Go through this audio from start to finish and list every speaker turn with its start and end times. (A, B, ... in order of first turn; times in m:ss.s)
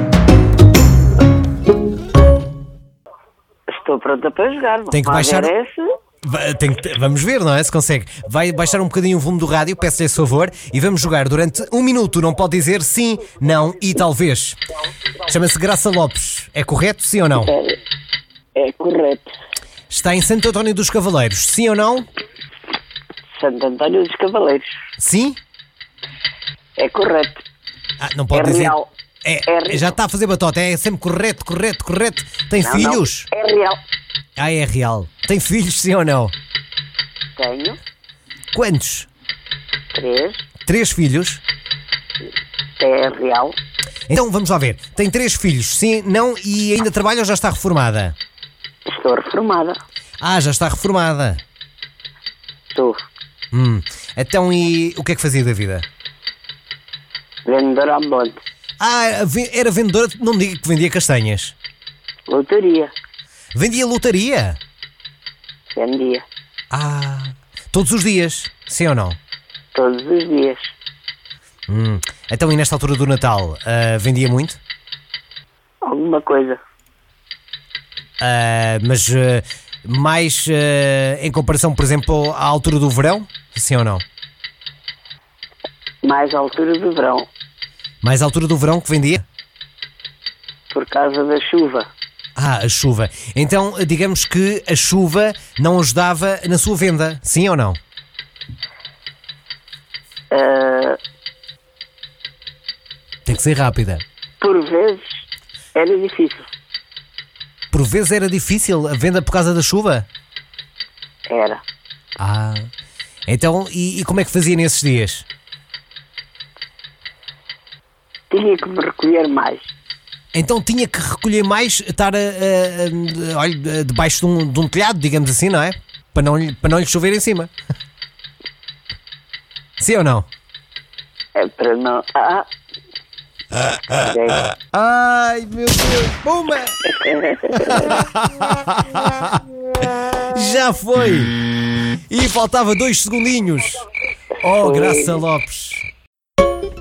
0:03.7-0:05.8 A
0:04.9-0:05.5 B
0:06.2-0:14.6 B
0:15.2-0:17.5 B
0:17.3-0:17.8 A
0:18.6-0:19.3 A
0:19.9-0:22.1 B
0:23.3-0:24.7 A
0:25.0-0:25.4 B
0:26.8-0:27.4 A
0:28.0-0:33.3 B
0:28.3-0:28.9 A
0:29.4-0:29.9 A
0:32.6-0:33.8 A
0:34.4-0:36.3 B
0:37.3-0:37.8 A
0:38.5-0:39.1 B
0:39.9-0:40.4 A
0:40.6-0:41.4 B
0:42.8-0:43.6 A
0:44.1-0:48.2 B
0:48.9-0:49.8 A
0:50.2-0:51.4 B
0:52.7-0:53.0 A
0:53.5-0:55.8 B
0:57.4-0:58.4 A
0:58.8-1:01.5 B
1:02.3-1:02.9 A
1:03.5-1:04.6 B
1:05.7-1:06.2 A
1:06.7-1:09.2 B
1:09.7-1:10.7 A
1:11.7-1:14.6 B
1:15.8-1:16.6 A
1:18.2-1:24.0 B
1:26.0-1:27.3 A
1:28.0-1:29.2 B
1:30.7-1:31.9 A
1:32.4-1:37.8 B
1:40.3-1:41.0 A
1:43.2-1:44.0 B
1:44.4-1:45.0 A
1:45.7-1:46.5 A
1:47.7-1:50.1 B
1:51.3-1:51.6 A
1:52.2-1:52.7 B
1:53.3-1:55.2 B
1:58.3-1:59.7 A
2:00.3-2:07.5 B
2:09.8-2:10.3 B
2:11.3-2:12.4 A
2:13.9-2:14.5 A
2:14.6-2:16.8 B
2:16.9-2:17.8 A
2:17.6-2:19.4 B
2:20.3-2:21.3 B
2:22.1-2:23.8 B
2:24.4-2:25.8 B
2:24.4-2:25.2 A